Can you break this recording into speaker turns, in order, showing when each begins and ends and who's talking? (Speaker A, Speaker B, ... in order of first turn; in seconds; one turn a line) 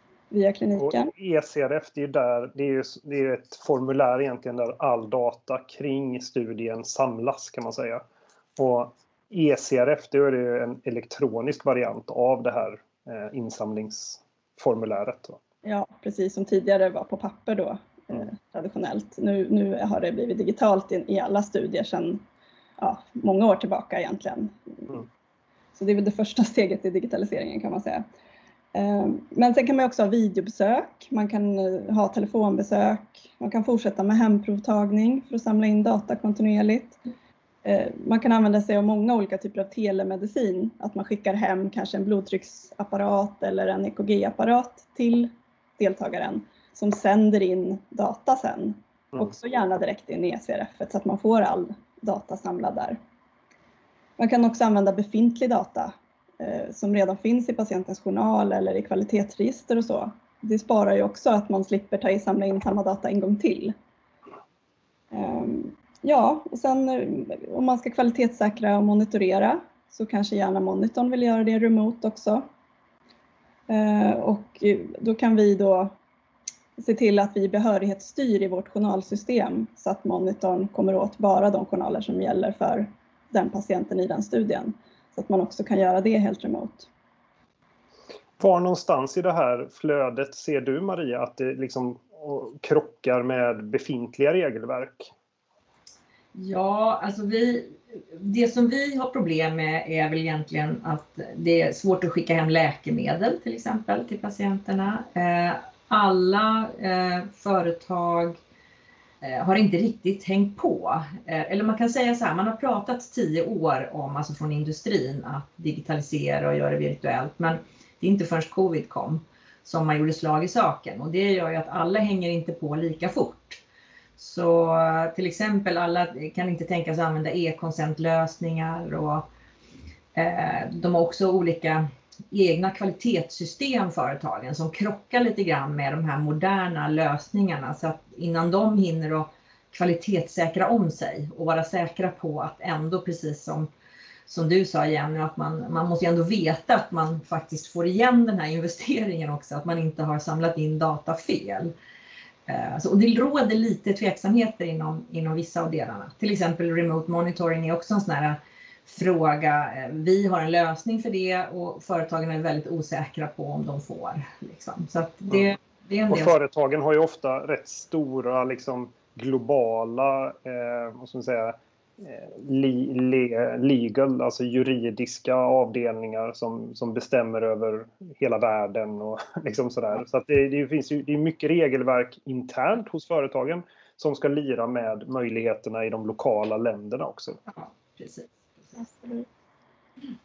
Speaker A: 0.3-1.1
Speaker B: 0.8-8.0
Speaker B: 8.6-15.4
Speaker A: 15.7-22.2
Speaker A: 22.8-25.0
Speaker A: 25.8-28.1
Speaker A: 28.7-37.0
Speaker A: 37.6-53.0
Speaker A: 54.2-63.7
Speaker A: 65.1-72.5
Speaker A: 73.7-75.9
Speaker A: 76.8-86.9
Speaker B: 88.4-95.1
Speaker C: 96.3-108.4
Speaker C: 109.2-123.6
Speaker C: 124.2-129.3
Speaker C: 130.2-143.7
Speaker C: 144.3-151.7
Speaker C: 152.5-166.3
Speaker B: 166.1-187.4
Speaker C: 187.5-188.8
Speaker A: 188.8-189.3